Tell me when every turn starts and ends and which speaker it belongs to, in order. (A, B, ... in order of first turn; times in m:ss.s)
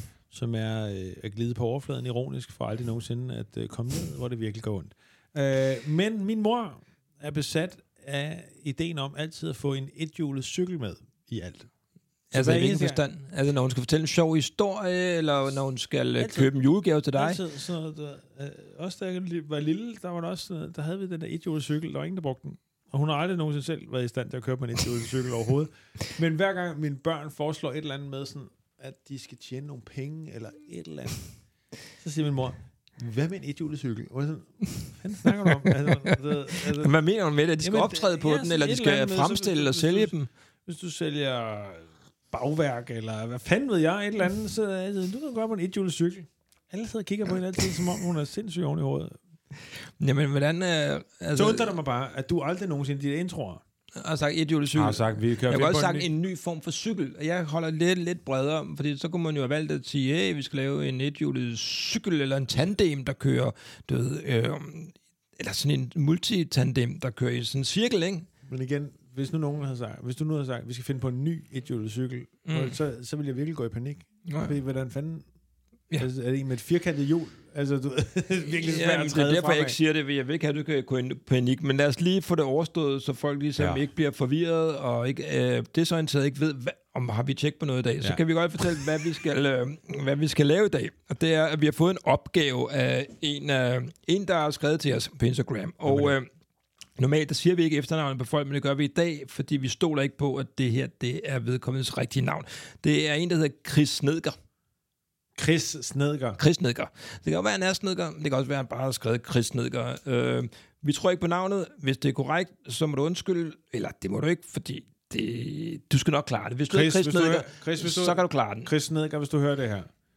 0:00.3-0:11.7 A
0:12.3-0:17.4 B
0:12.3-0:13.0 A
0:16.2-0:16.5 A
0:17.1-0:31.2 A
0:32.0-0:36.9 A
0:35.3-0:40.3 B
0:37.6-0:40.1 A
0:40.6-0:49.2 A
0:50.0-0:51.7 B
0:51.3-0:53.6 A
0:54.0-1:08.3 B
0:54.8-0:56.1 A
1:08.4-1:15.2 A
1:12.4-1:12.8 B
1:14.3-1:14.5 B
1:16.0-1:19.8 A
1:18.6-1:36.2 B
1:35.8-1:36.1 A
1:37.0-1:44.4 B
1:45.4-1:46.4 A
1:46.4-1:58.7 B
1:56.7-1:59.9 A